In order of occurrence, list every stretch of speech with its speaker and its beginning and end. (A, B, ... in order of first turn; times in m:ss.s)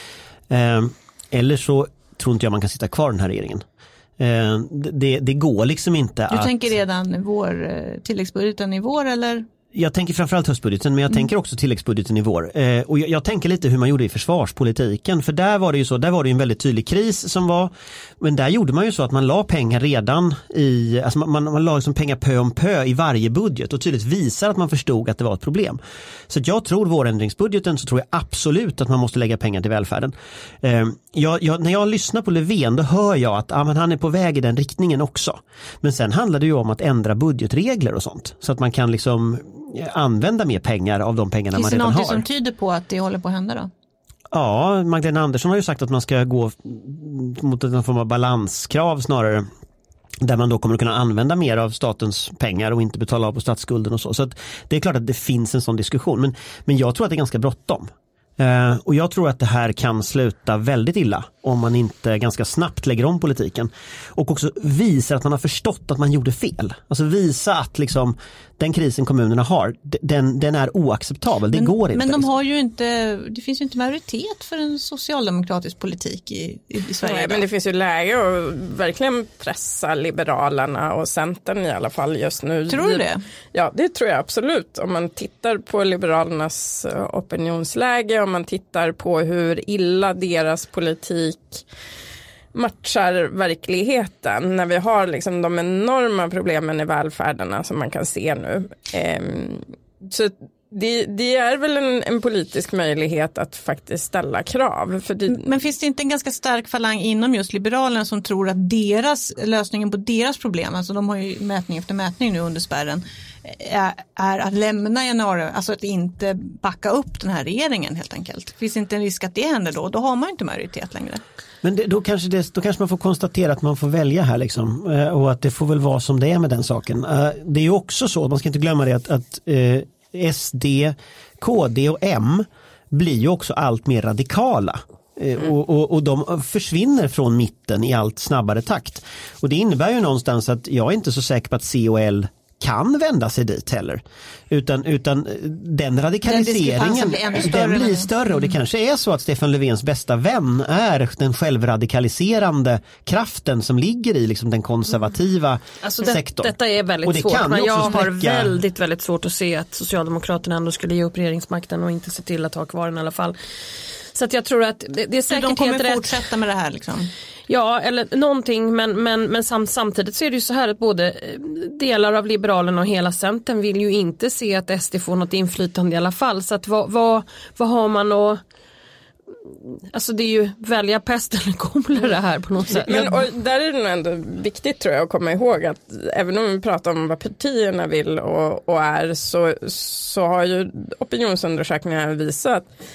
0:00.5-0:03.6 A
0:04.2-0:06.5 A
0:06.3-0:09.5 B
0:09.7-0:42.2 A
0:41.6-0:43.7 B
0:44.3-0:49.5 A
0:50.2-1:12.3 A
1:11.5-1:17.4 B
1:17.0-1:23.0 C
1:22.7-1:23.2 B
1:23.5-1:31.6 C
1:32.5-1:45.4 C
1:45.3-2:01.2 B
2:01.6-2:38.6 A
2:26.3-2:28.5 B
2:35.8-2:43.4 D
2:44.1-2:46.1 D
2:45.3-2:47.1 B
2:47.5-2:58.4 D
2:59.9-3:03.1 D
3:02.7-3:03.2 A
3:02.9-3:12.7 C